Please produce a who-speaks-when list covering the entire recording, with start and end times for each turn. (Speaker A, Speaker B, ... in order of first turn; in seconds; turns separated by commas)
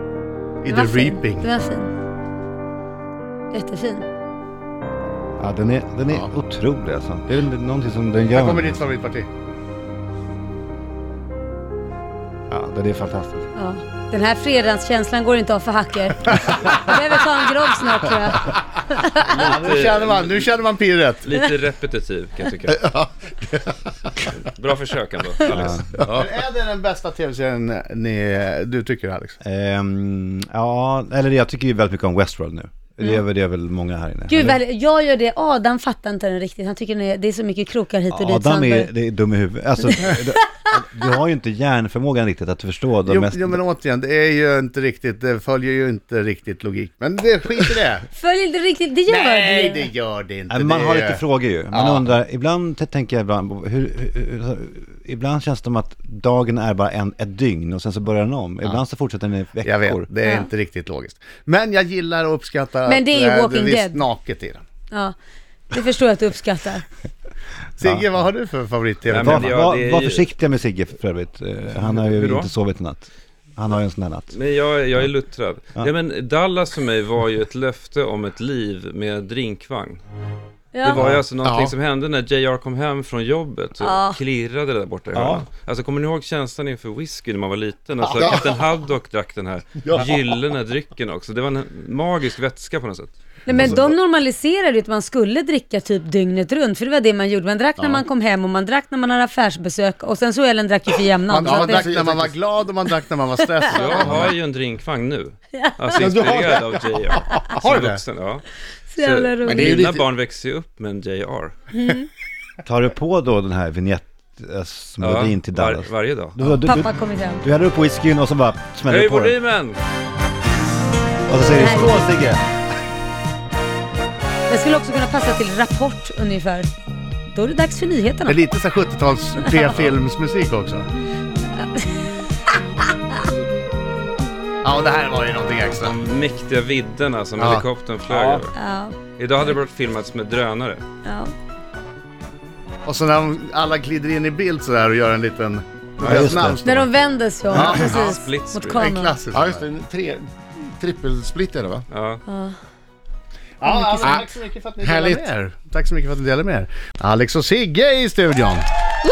Speaker A: 0.6-1.5, Speaker B: 0.7-1.9, Speaker B: 3.5-4.1, Speaker C: 5.4-8.8, Speaker A: 8.3-9.3, Speaker C: 12.5-13.5, Speaker B: 13.6-19.6, Speaker D: 19.2-20.5, Speaker A: 19.3-21.3, Speaker D: 21.2-22.9, Speaker E: 22.7-23.7, Speaker D: 24.3-26.1, Speaker C: 25.5-25.9, Speaker E: 26.0-26.3, Speaker A: 26.1-29.4, Speaker C: 29.4-34.6, Speaker B: 34.3-38.9, Speaker C: 38.1-43.6, Speaker A: 43.1-48.1, Speaker B: 48.2-49.9, Speaker A: 49.1-52.1, Speaker C: 50.5-60.1, Speaker A: 59.6-64.6, Speaker B: 62.9-64.0, Speaker B: 65.7-66.9, Speaker A: 67.8-69.6, Speaker C: 67.8-68.2, Speaker D: 69.1-70.3, Speaker C: 69.1-74.4, Speaker D: 71.8-72.5, Speaker D: 74.3-80.0, Speaker B: 80.7-81.0, Speaker D: 80.8-93.1, Speaker E: 81.4-81.7, Speaker B: 83.8-84.2, Speaker C: 85.1-85.5, Speaker E: 88.0-88.5, Speaker E: 89.8-90.4, Speaker B: 93.5-102.0, Speaker E: 93.5-94.0, Speaker E: 97.8-98.1, Speaker A: 101.3-104.3, Speaker E: 101.4-102.4, Speaker D: 103.7-111.5, Speaker B: 105.6-106.1, Speaker E: 106.0-107.2, Speaker A: 107.3-108.0, Speaker B: 108.9-109.8, Speaker E: 109.4-110.1, Speaker B: 111.7-112.1, Speaker C: 112.7-119.3, Speaker D: 115.0-116.4, Speaker B: 116.7-117.4, Speaker D: 118.9-119.8, Speaker C: 121.3-122.4, Speaker B: 121.5-122.1, Speaker B: 124.5-126.7, Speaker B: 127.3-128.4, Speaker A: 128.3-130.9, Speaker B: 131.6-133.2, Speaker A: 134.6-135.9, Speaker D: 135.8-138.5, Speaker A: 137.4-137.6, Speaker C: 138.1-138.4, Speaker B: 138.6-139.0, Speaker D: 139.2-140.8, Speaker B: 141.1-141.3, Speaker A: 142.9-146.9, Speaker C: 146.0-146.9, Speaker E: 146.1-146.4, Speaker B: 146.7-149.2, Speaker A: 147.5-148.1, Speaker D: 147.5-148.9, Speaker A: 148.7-149.6, Speaker E: 149.3-151.9, Speaker D: 151.9-152.2, Speaker B: 152.3-152.6, Speaker A: 153.6-158.7, Speaker B: 153.6-154.1, Speaker E: 154.0-154.3, Speaker E: 154.8-155.3